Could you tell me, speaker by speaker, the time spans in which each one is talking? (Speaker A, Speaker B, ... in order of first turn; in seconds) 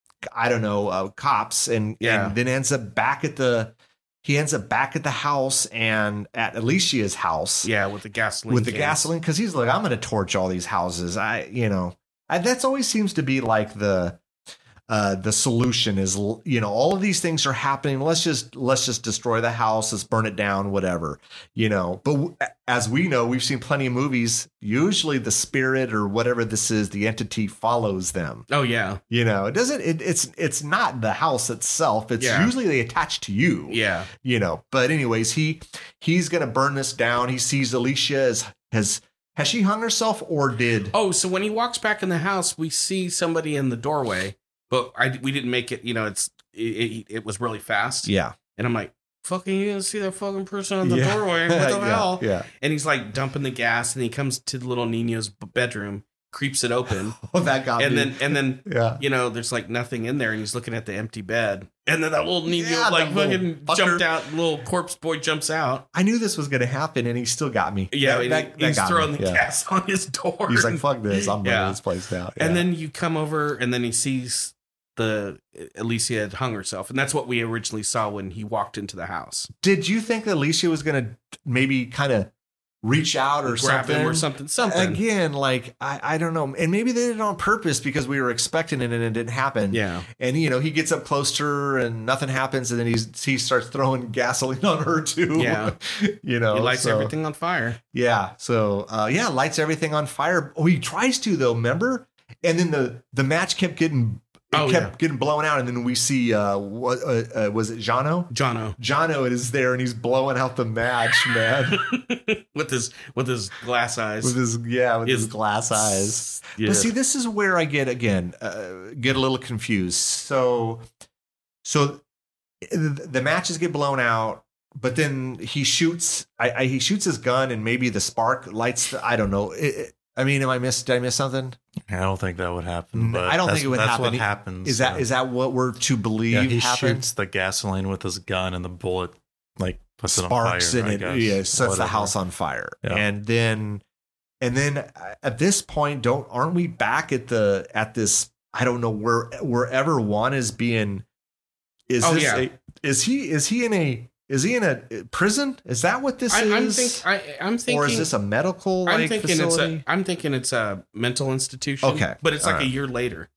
Speaker A: 0.3-7.7, 8.5-14.2, 14.9-28.4, 29.1-40.9, 48.0-48.4, 50.8-52.5, 56.9-59.0, 62.5-64.1, 65.9-69.4, 70.5-72.6, 79.6-82.3, 82.8-97.1, 97.9-111.8, 114.2-120.9, 121.6-122.0, 122.6-131.6, 132.9-137.1, 140.1-143.8, 144.4-151.0, 151.9-157.0, 157.7-159.8, 161.8-162.7
Speaker B: 2.0-2.4, 7.6-9.1, 28.5-29.0, 32.2-32.5, 33.7-34.1, 40.9-57.2, 57.8-65.8, 67.9-71.8, 72.4-79.5, 83.5-85.0, 89.7-90.1, 95.3-95.7, 96.5-97.8, 104.5-104.9, 108.3-108.8, 111.5-114.4, 115.0-116.9, 152.0-152.4, 156.3-158.1, 158.8-163.3
Speaker C: 131.9-135.1, 136.3-142.1